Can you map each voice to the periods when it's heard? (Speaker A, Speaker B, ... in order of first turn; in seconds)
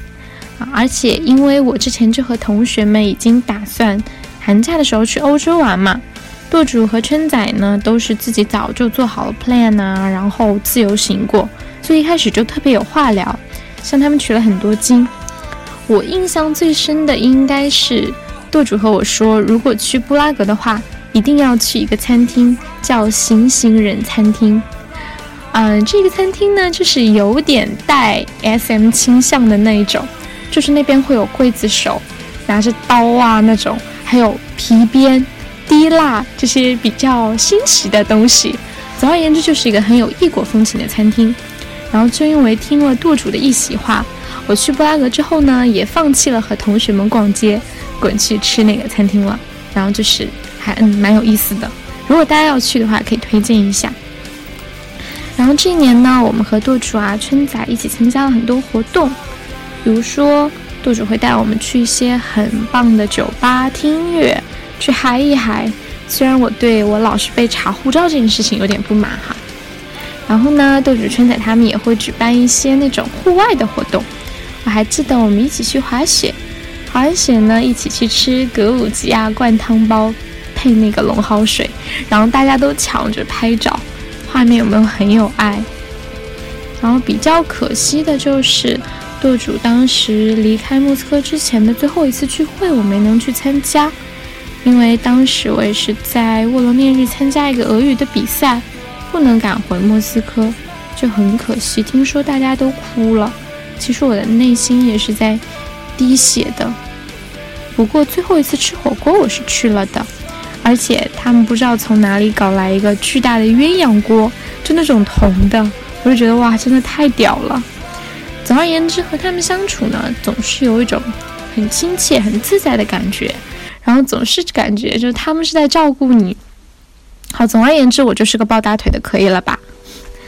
Speaker A: 0.6-15.1, 15.9-24.6, 25.5-41.4, 41.9-54.0, 55.4-59.2, 59.8-69.4, 70.3-74.1, 74.6-76.4, 76.9-85.7, 86.8-93.9, 94.6-105.4, 106.0-106.8, 107.7-110.1, 110.6-117.7, 118.4-126.4, 127.3-129.6